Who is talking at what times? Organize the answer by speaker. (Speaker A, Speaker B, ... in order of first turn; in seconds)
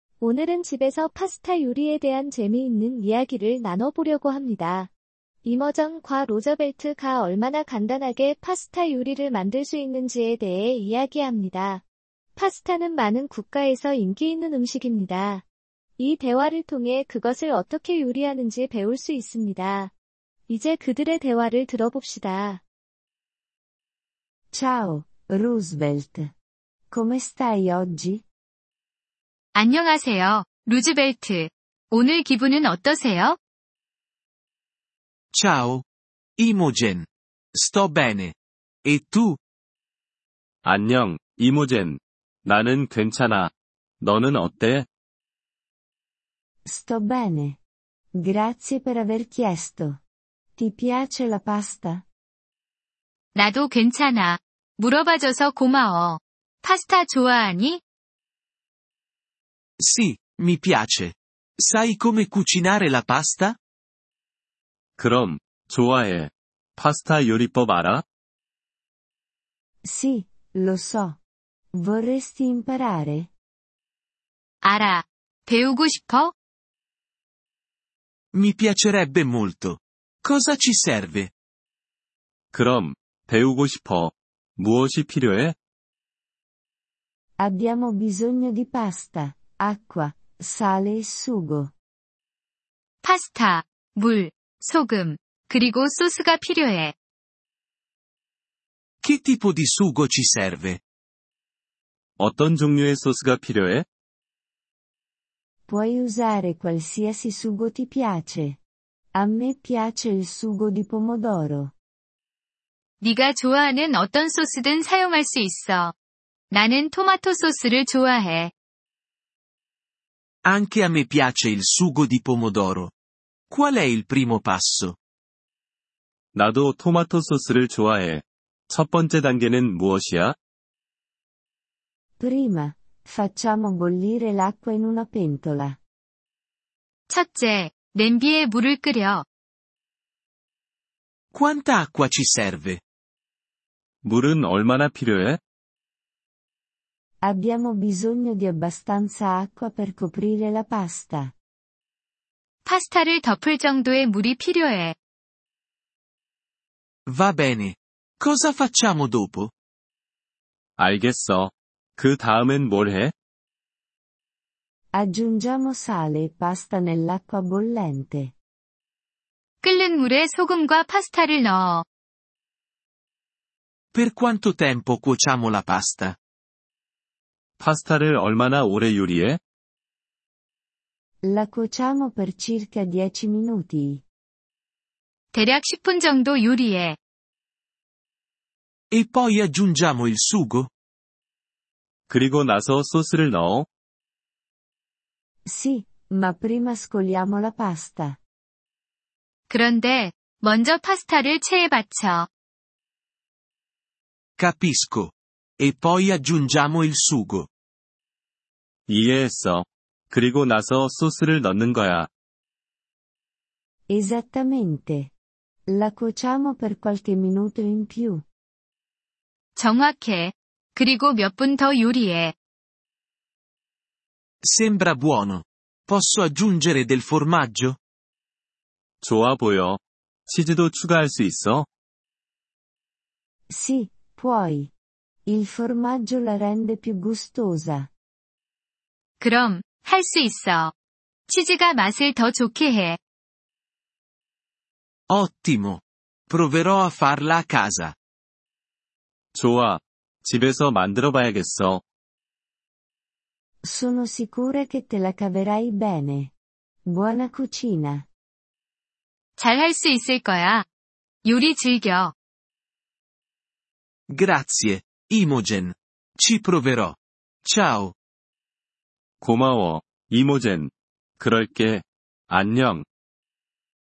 Speaker A: 0.2-4.9, 5.5-11.8, 12.4-15.4, 16.0-19.9, 20.5-22.6
Speaker B: 24.5-26.3, 26.9-28.2, 46.7-47.6, 48.1-50.0, 50.5-52.0, 69.8-71.2, 71.7-73.3, 87.4-91.7, 105.7-108.6, 109.2-111.7, 132.2-135.8, 147.2-151.3, 164.9-168.3, 181.2-184.0, 195.5-198.2, 213.9-215.1, 215.7-218.2, 233.5-234.7, 235.2-237.9, 253.6-256.3, 256.9-258.1
Speaker C: 29.6-33.4, 53.3-57.8, 74.6-76.3, 93.0-96.9, 113.0-115.9, 116.5-118.5, 137.1-139.2, 152.7-154.9, 169.6-171.8, 185.3-187.0, 199.5-202.3, 219.6-222.3, 239.2-240.7, 241.3-243.0, 259.4-260.7, 261.2-262.1
Speaker D: 35.3-35.8, 36.4-39.4, 59.8-63.6, 78.3-81.3, 99.0-100.8, 120.5-122.9, 123.5-125.0, 141.3-142.8, 157.1-159.5, 173.9-176.2, 188.9-190.7, 204.4-207.5, 224.4-227.8, 245.1-248.0, 264.1-267.9
Speaker E: 40.6-44.9, 65.0-68.0, 82.5-85.6, 102.2-103.9, 126.3-130.3, 144.0-145.4, 160.8-163.1, 177.6-179.4, 192.1-193.7, 208.9-212.1, 229.0-231.7, 249.3-251.8, 269.2-272.9